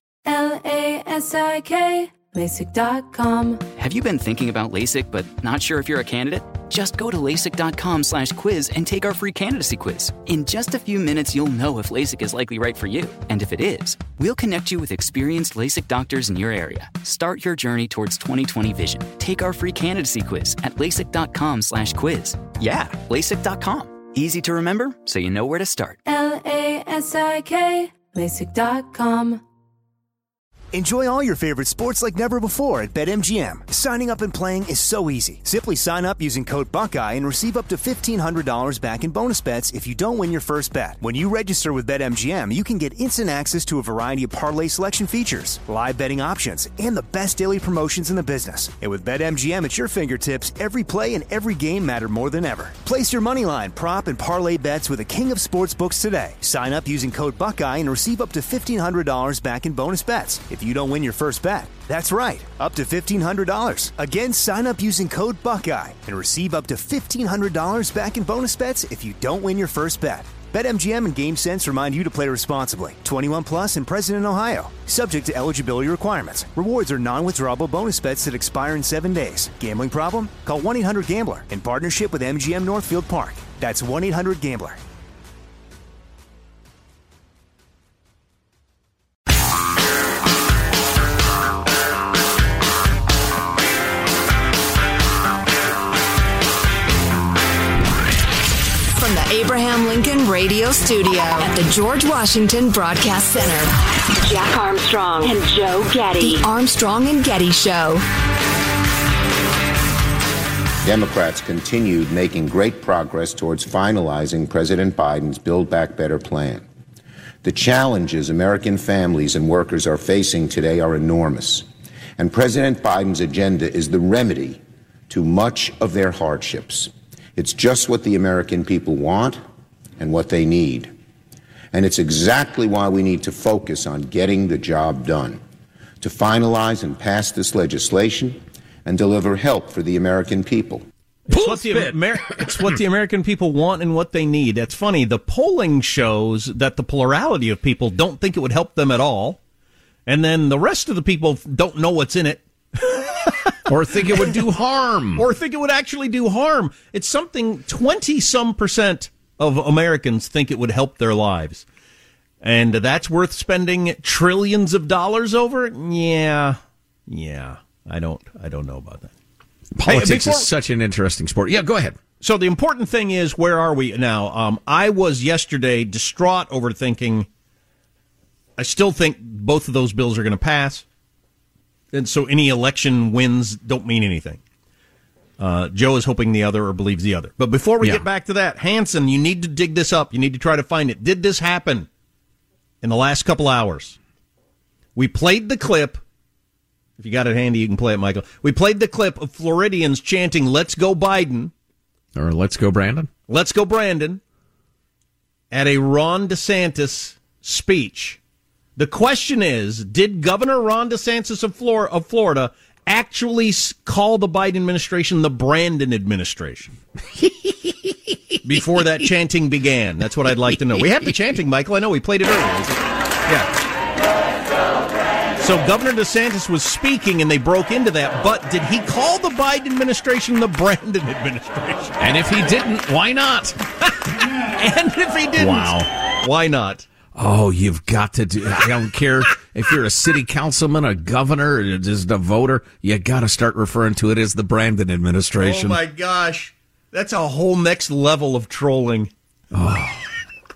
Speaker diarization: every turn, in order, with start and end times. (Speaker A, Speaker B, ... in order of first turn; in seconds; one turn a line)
Speaker A: 0.3-3.6
Speaker B: 3.8-26.0
Speaker A: 26.1-29.4
Speaker C: 30.7-84.8
Speaker D: 98.9-103.7
Speaker E: 104.3-106.3
Speaker D: 106.2-108.0
Speaker F: 110.8-116.7
Speaker F: 117.4-129.4
Speaker F: 130.0-130.9
Speaker F: 131.7-135.4
Speaker F: 136.0-140.9
Speaker G: 141.3-149.4
Speaker H: 141.3-142.7
Speaker G: 150.1-154.4
Speaker H: 153.7-155.3
Speaker G: 155.2-161.7
Speaker G: 162.4-169.1
Speaker H: 169.8-172.0
Speaker G: 169.9-170.5
Speaker G: 172.2-177.3
Speaker G: 178.6-180.8
Speaker G: 181.9-184.4
Speaker G: 185.4-191.9
Speaker H: 187.8-188.1
Speaker G: 192.8-194.0
Speaker G: 194.9-196.0
Speaker G: 197.0-201.5
Speaker H: 202.2-203.1
Speaker G: 203.3-204.2
Speaker G: 205.5-208.2
Speaker G: 208.8-216.7
Speaker H: 217.3-217.9
Speaker G: 218.4-223.5
Speaker H: 218.5-218.9
Speaker H: 220.6-221.2
Speaker G: 225.4-232.2
Speaker H: 232.0-233.6
Speaker G: 234.6-236.9
Speaker H: 235.4-235.9
Speaker H: 237.2-245.8
Speaker G: 245.3-249.1
Speaker H: 249.5-250.1